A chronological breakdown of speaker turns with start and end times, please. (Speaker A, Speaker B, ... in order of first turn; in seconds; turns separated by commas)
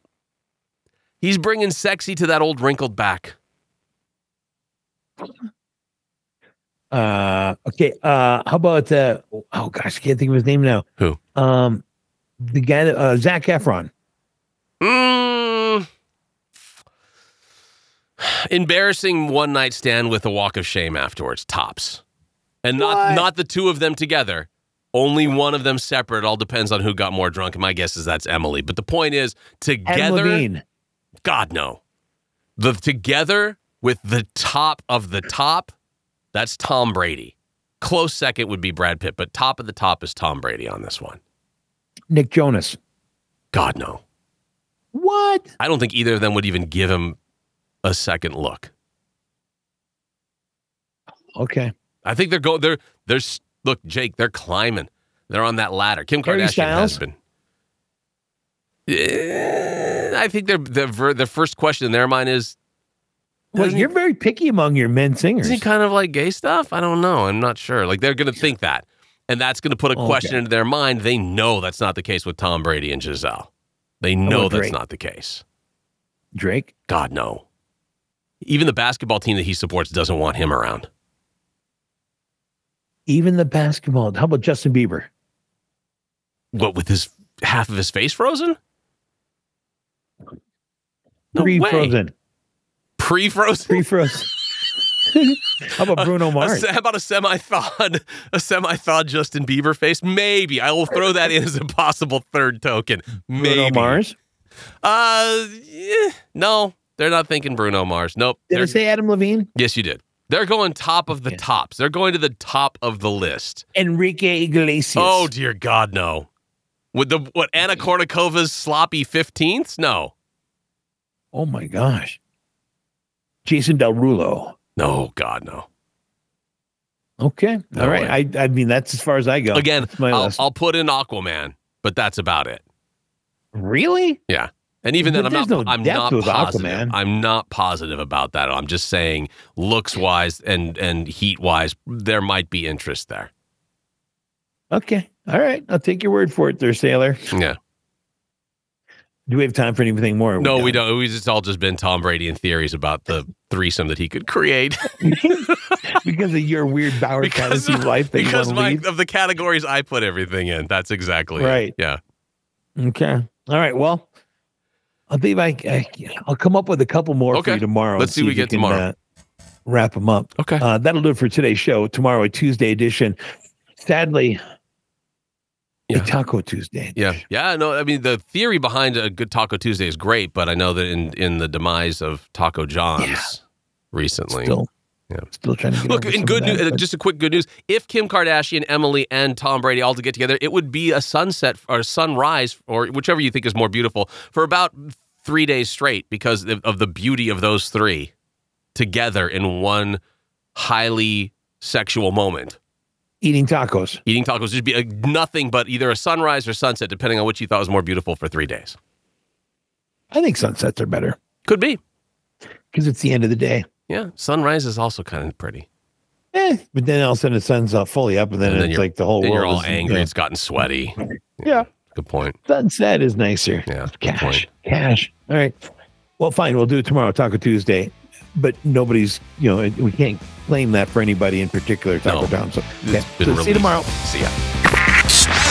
Speaker A: 1.2-3.4, Speaker B: 6.9-10.8, Speaker B: 11.3-11.8, Speaker B: 12.4-13.9, Speaker A: 14.8-15.8, Speaker A: 18.2-22.0, Speaker A: 22.6-30.4, Speaker B: 22.8-23.3, Speaker B: 29.9-30.6, Speaker A: 31.2-31.8, Speaker A: 32.6-35.7, Speaker A: 36.3-41.2, Speaker B: 42.1-42.8, Speaker A: 43.5-44.0, Speaker B: 44.9-45.5, Speaker A: 45.6-47.2, Speaker A: 47.8-48.7, Speaker B: 51.4-51.7, Speaker A: 52.0-57.1, Speaker B: 56.2-57.0, Speaker A: 58.9-62.6, Speaker B: 63.5-65.6, Speaker A: 63.5-63.9, Speaker A: 65.4-73.5, Speaker B: 69.9-70.4, Speaker A: 74.0-75.4, Speaker B: 74.2-74.8, Speaker B: 76.3-76.7, Speaker A: 76.9-77.4, Speaker A: 78.4-80.9, Speaker B: 83.1-85.1, Speaker A: 86.5-88.6, Speaker A: 91.3-92.0, Speaker B: 91.3-92.1, Speaker A: 93.0-93.8, Speaker B: 93.7-94.3, Speaker B: 95.1-96.7, Speaker A: 96.0-104.0, Speaker B: 103.4-104.2, Speaker A: 104.8-108.8, Speaker B: 108.5-109.5, Speaker A: 109.5-113.6, Speaker B: 111.1-111.4, Speaker B: 113.7-115.3, Speaker A: 115.0-116.3, Speaker A: 116.9-120.1, Speaker B: 121.3-122.2, Speaker B: 123.4-124.5, Speaker A: 124.8-125.7, Speaker B: 127.2-130.4, Speaker A: 127.7-128.2, Speaker A: 129.5-132.6, Speaker B: 133.5-134.2, Speaker A: 134.3-143.3, Speaker B: 135.0-136.9, Speaker B: 144.7-147.2, Speaker A: 147.3-147.6, Speaker B: 149.3-150.8, Speaker A: 150.4-155.9, Speaker B: 155.0-155.4, Speaker B: 156.0-158.8, Speaker A: 157.2-162.0, Speaker B: 161.4-161.7, Speaker B: 162.8-164.1, Speaker B: 165.1-168.9, Speaker A: 167.3-168.8, Speaker B: 169.7-173.2, Speaker A: 170.4-170.6, Speaker B: 173.8-174.4, Speaker B: 175.9-177.2, Speaker A: 176.9-183.4, Speaker B: 183.0-183.3, Speaker A: 183.9-184.6, Speaker B: 184.3-184.7, Speaker B: 185.3-186.8, Speaker A: 185.8-198.1, Speaker A: 198.7-200.0, Speaker A: 200.5-202.6, Speaker B: 203.2-204.0, Speaker A: 204.1-208.8, Speaker B: 210.1-211.2, Speaker A: 211.4-211.8, Speaker B: 212.7-213.7, Speaker A: 213.9-215.7, Speaker B: 216.3-220.1, Speaker A: 218.4-222.4, Speaker B: 222.5-225.6, Speaker A: 223.7-224.5, Speaker B: 226.2-233.9, Speaker A: 232.1-234.3